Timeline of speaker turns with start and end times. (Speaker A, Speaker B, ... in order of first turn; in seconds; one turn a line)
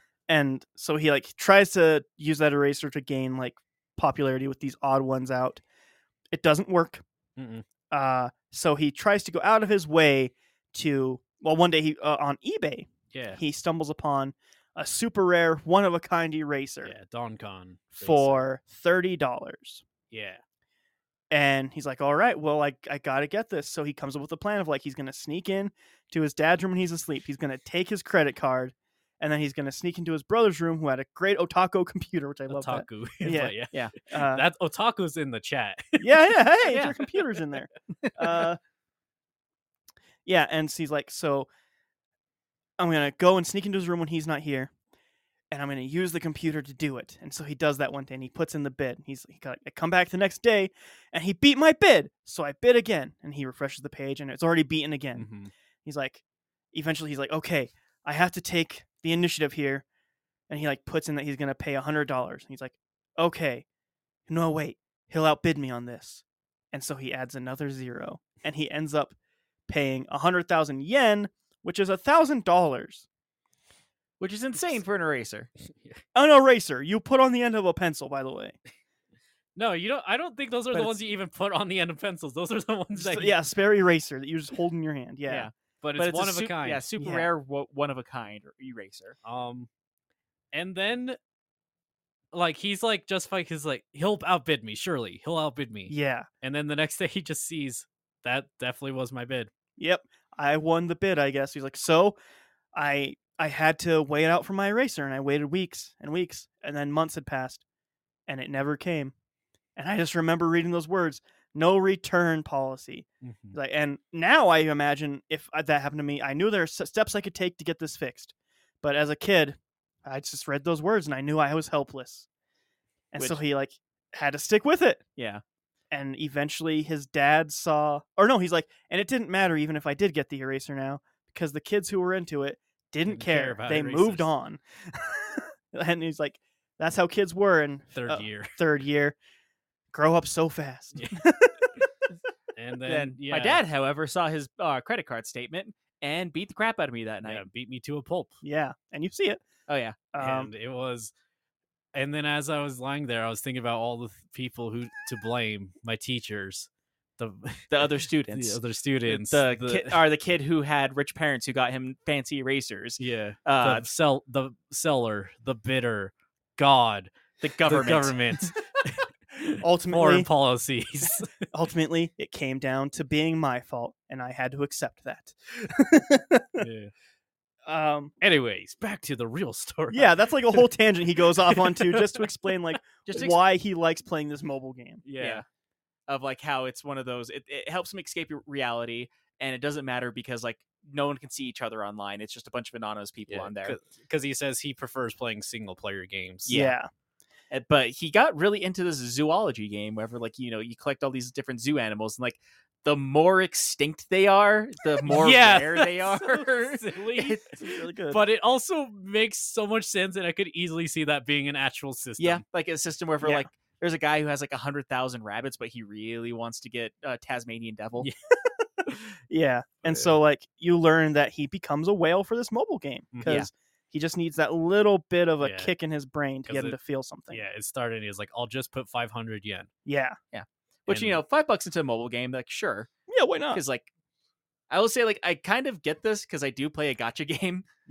Speaker A: 0.3-5.6
Speaker A: 6.3-7.0
Speaker B: 7.4-7.7
Speaker A: 7.9-16.9
Speaker B: 13.1-13.4
Speaker B: 16.8-18.4
Speaker A: 18.0-19.8
Speaker B: 20.1-20.4
Speaker A: 21.3-33.5
Speaker B: 32.5-36.1
Speaker A: 34.1-34.5
Speaker A: 36.0-38.6
Speaker C: 36.7-37.0
Speaker C: 38.0-38.4
Speaker A: 40.2-41.5
Speaker A: 42.8-44.7
Speaker A: 45.5-55.3
Speaker B: 55.2-55.5
Speaker A: 55.9-56.2
Speaker A: 56.7-59.9
Speaker A: 60.5-63.6
Speaker A: 64.3-69.2
Speaker A: 69.7-73.1
Speaker C: 74.2-75.5
Speaker B: 75.7-76.0
Speaker A: 76.2-78.6
Speaker B: 79.6-83.4
Speaker A: 83.0-85.5
Speaker C: 85.3-89.2
Speaker B: 85.8-86.8
Speaker A: 87.0-87.3
Speaker B: 89.2-89.7
Speaker B: 90.5-91.2
Speaker B: 92.3-99.5
Speaker A: 95.9-96.3
Speaker A: 99.8-102.2
Speaker A: 102.7-107.6
Speaker A: 108.3-109.1
Speaker A: 109.8-122.3
Speaker B: 113.2-113.6
Speaker A: 123.1-125.0
Speaker C: 125.2-125.4
Speaker A: 125.9-139.2
Speaker B: 133.1-134.3
Speaker B: 137.9-138.6
Speaker A: 139.9-141.8
Speaker B: 140.9-141.2
Speaker B: 142.6-143.6
Speaker C: 142.9-147.4
Speaker B: 147.3-148.4
Speaker A: 148.4-149.4
Speaker C: 149.7-150.0
Speaker A: 150.1-150.5
Speaker B: 150.2-151.1
Speaker B: 151.9-160.0
Speaker C: 157.7-163.8
Speaker B: 163.0-167.1
Speaker C: 167.4-168.6
Speaker B: 167.7-171.4
Speaker A: 169.6-170.3
Speaker A: 171.4-176.7
Speaker B: 176.6-176.9
Speaker A: 177.7-178.1
Speaker B: 178.2-180.7
Speaker A: 179.9-185.0
Speaker B: 181.5-182.2
Speaker C: 183.1-183.4
Speaker B: 185.1-185.4
Speaker C: 185.2-185.4
Speaker C: 186.1-193.8
Speaker B: 193.3-196.6
Speaker C: 196.5-196.8
Speaker A: 196.5-196.9
Speaker C: 197.5-207.0
Speaker B: 205.1-212.4
Speaker A: 207.2-208.2
Speaker C: 212.2-218.1
Speaker A: 213.2-213.5
Speaker A: 218.4-227.4
Speaker B: 219.8-220.2
Speaker B: 223.1-223.4
Speaker B: 225.4-225.7
Speaker B: 226.5-226.8
Speaker B: 227.3-229.7
Speaker A: 229.9-230.2
Speaker C: 230.3-232.9
Speaker B: 230.9-231.2
Speaker A: 233.1-233.6
Speaker C: 233.5-233.9
Speaker C: 234.7-237.7